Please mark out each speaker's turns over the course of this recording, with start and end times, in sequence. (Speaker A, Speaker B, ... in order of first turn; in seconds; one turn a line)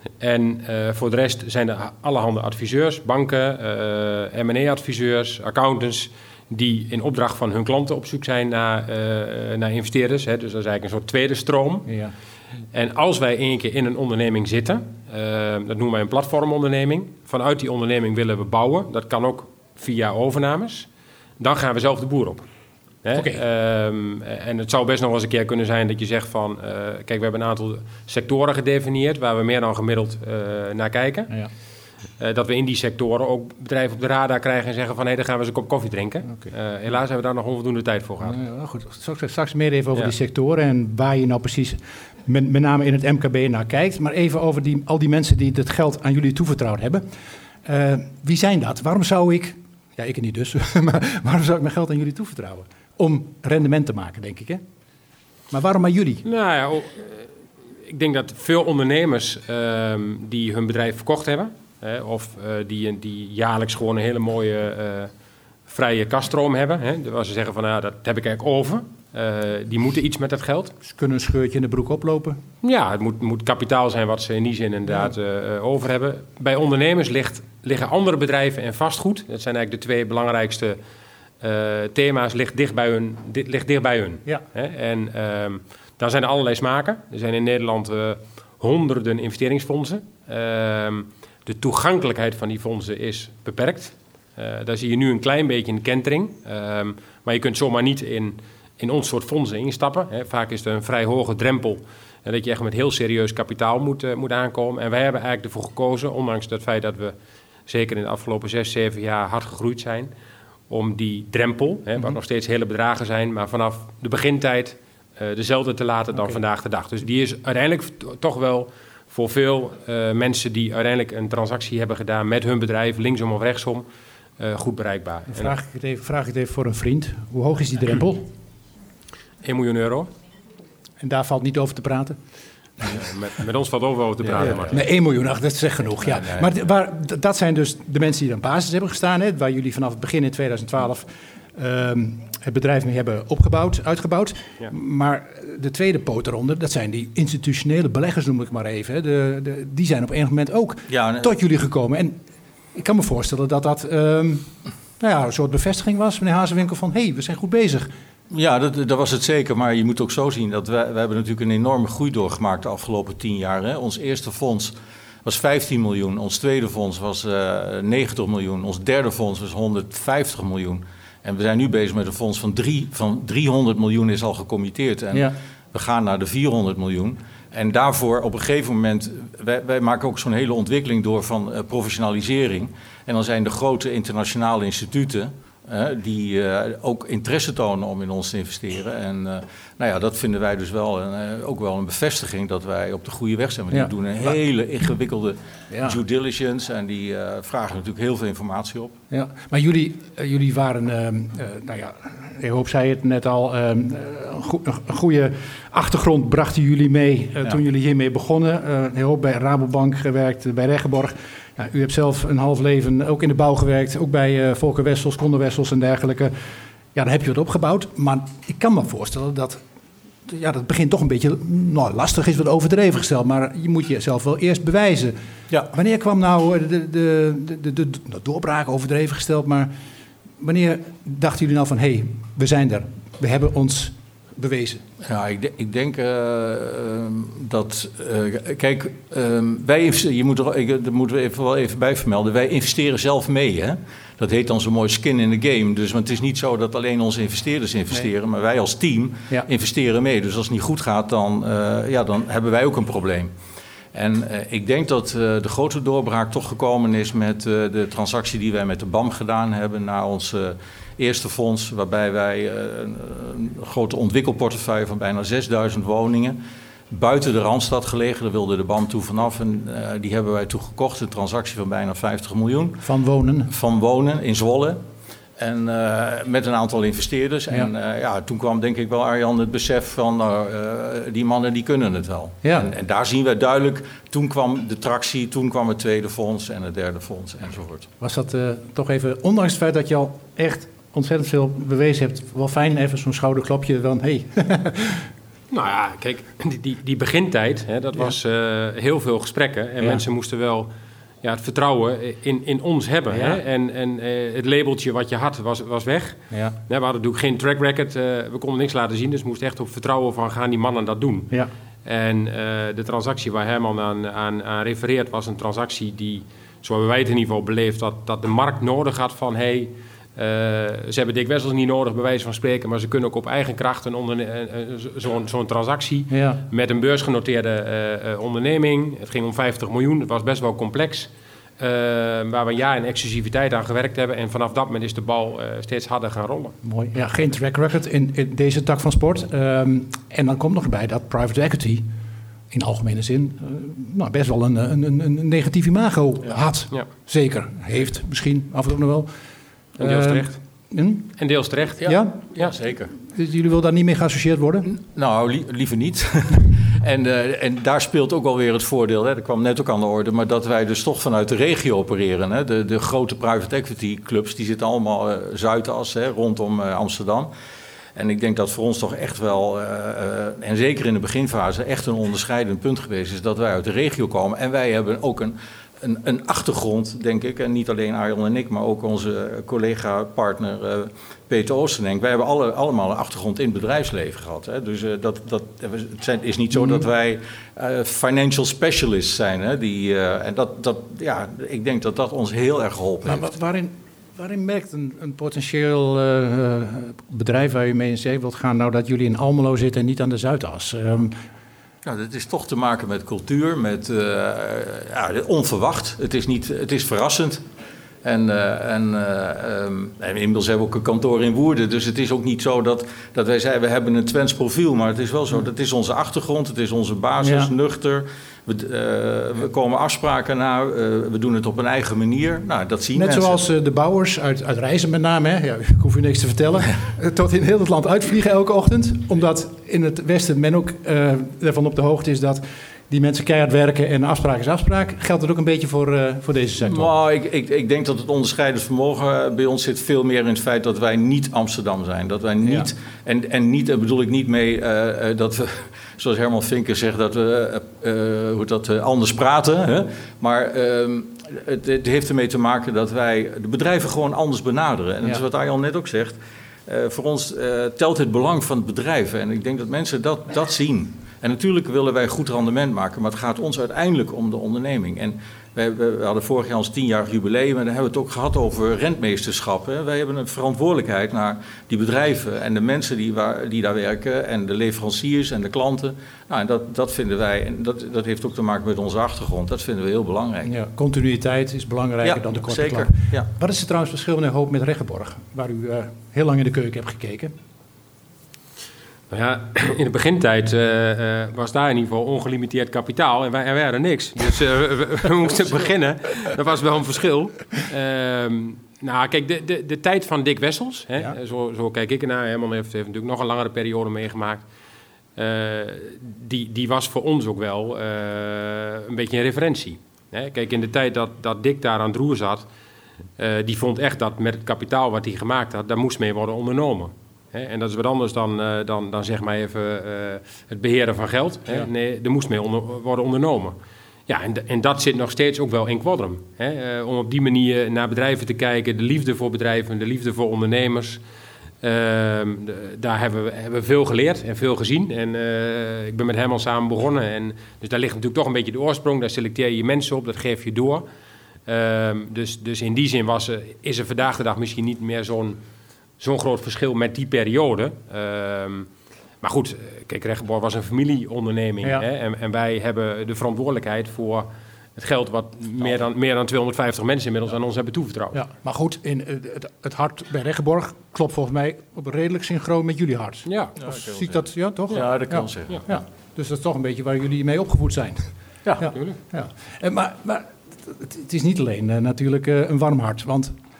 Speaker A: 0.2-11.9
Speaker B: 11.9-12.1
Speaker A: 12.7-20.9
Speaker A: 21.4-22.4
Speaker A: 23.0-31.3
Speaker B: 23.1-23.4
Speaker A: 32.2-38.4
Speaker B: 38.2-47.1
Speaker B: 47.6-54.6
Speaker B: 55.5-56.2
Speaker A: 56.2-57.3
Speaker A: 57.9-65.1
Speaker A: 65.7-70.7
Speaker B: 70.8-72.4
Speaker A: 72.6-80.8
Speaker A: 81.4-107.2
Speaker A: 107.7-110.1
Speaker A: 110.7-123.9
Speaker A: 124.4-125.5
Speaker B: 125.3-128.3
Speaker A: 129.4-130.1
Speaker B: 131.0-132.2
Speaker A: 132.9-134.8
Speaker C: 134.4-134.7
Speaker B: 134.4-152.2
Speaker C: 136.0-136.5
Speaker C: 150.9-151.3
Speaker B: 152.7-157.9
Speaker C: 158.3-164.7
Speaker C: 165.2-199.0
Speaker B: 193.7-194.3
Speaker B: 195.7-196.0
Speaker B: 199.1-216.3
Speaker B: 216.9-219.6
Speaker B: 220.2-225.2
Speaker B: 225.7-229.7
Speaker B: 230.4-234.8
Speaker C: 235.0-253.3
Speaker C: 253.9-266.4
Speaker C: 266.9-272.9
Speaker B: 272.8-273.5
Speaker C: 273.5-274.8
Speaker C: 275.4-287.9
Speaker B: 282.4-282.7
Speaker B: 288.0-295.1
Speaker A: 295.5-300.7
Speaker A: 301.2-311.3
Speaker B: 303.1-303.4
Speaker B: 306.3-306.6
Speaker A: 311.8-336.6
Speaker B: 326.1-326.4
Speaker B: 336.6-341.8
Speaker B: 342.5-349.1
Speaker A: 349.8-350.4
Speaker B: 349.8-351.1
Speaker A: 351.2-351.8
Speaker C: 351.8-352.9
Speaker B: 351.8-352.2
Speaker B: 353.0-354.7
Speaker C: 354.6-367.3
Speaker C: 367.9-393.3
Speaker B: 386.5-386.8
Speaker B: 393.0-401.1
Speaker C: 401.8-407.4
Speaker C: 408.0-423.4
Speaker B: 417.2-417.5
Speaker B: 422.9-436.9
Speaker C: 436.6-480.5
Speaker B: 442.4-442.7
Speaker B: 480.4-487.3
Speaker C: 482.0-483.3
Speaker A: 489.1-504.4
Speaker A: 505.1-512.5
Speaker A: 513.2-531.0
Speaker A: 531.6-540.9
Speaker A: 541.5-545.4
Speaker A: 546.0-548.7
Speaker A: 549.2-558.2
Speaker B: 558.1-573.3
Speaker A: 563.2-563.5
Speaker C: 563.6-565.8
Speaker A: 568.7-569.0